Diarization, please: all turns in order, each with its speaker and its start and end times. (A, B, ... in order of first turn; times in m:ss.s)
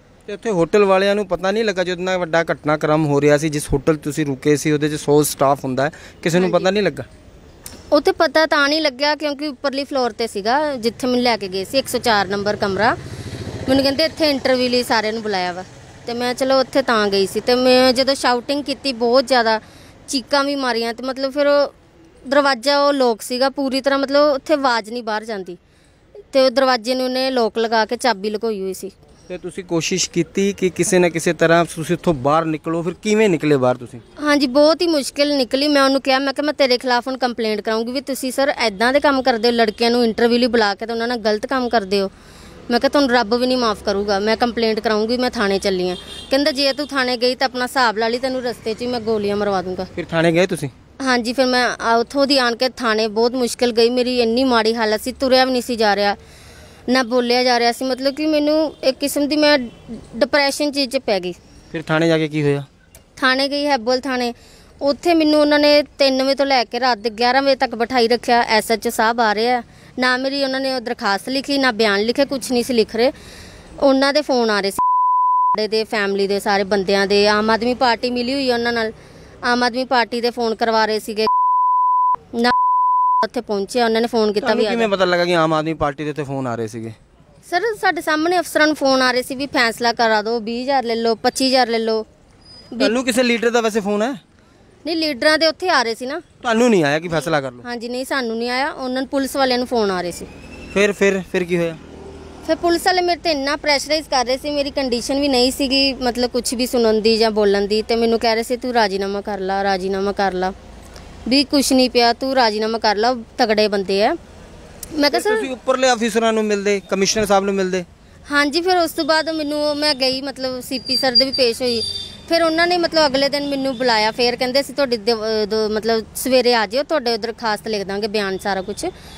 0:00.3-0:07.1 A
0:06.4-0:06.7 B
0:07.9-0:13.0 B
0:13.7-0:21.7 B
0:22.2-0:25.6 B
0:26.3-0:28.9 B
0:29.3-0:34.0 A
0:34.2-0:42.1 B
0:42.7-0:49.9 B
0:49.9-0:50.7 A
0:51.0-0:56.2 B
0:56.9-1:01.4 B
1:01.7-1:02.7 A
1:03.2-1:13.1 B
1:13.8-1:14.8 B
1:15.5-1:18.9 B
1:19.4-1:21.3 B
1:23.2-1:24.9 B
1:24.4-1:27.0 A
1:27.4-1:32.0 B
1:32.8-1:34.2 A
1:34.8-1:36.2 B
1:36.4-1:37.6 A
1:37.6-1:40.3 B
1:40.7-1:41.8 A
1:42.4-1:50.5 B
1:51.2-1:54.2 B
1:54.9-1:55.5 B
1:55.1-1:57.8 A
1:58.3-2:08.9 B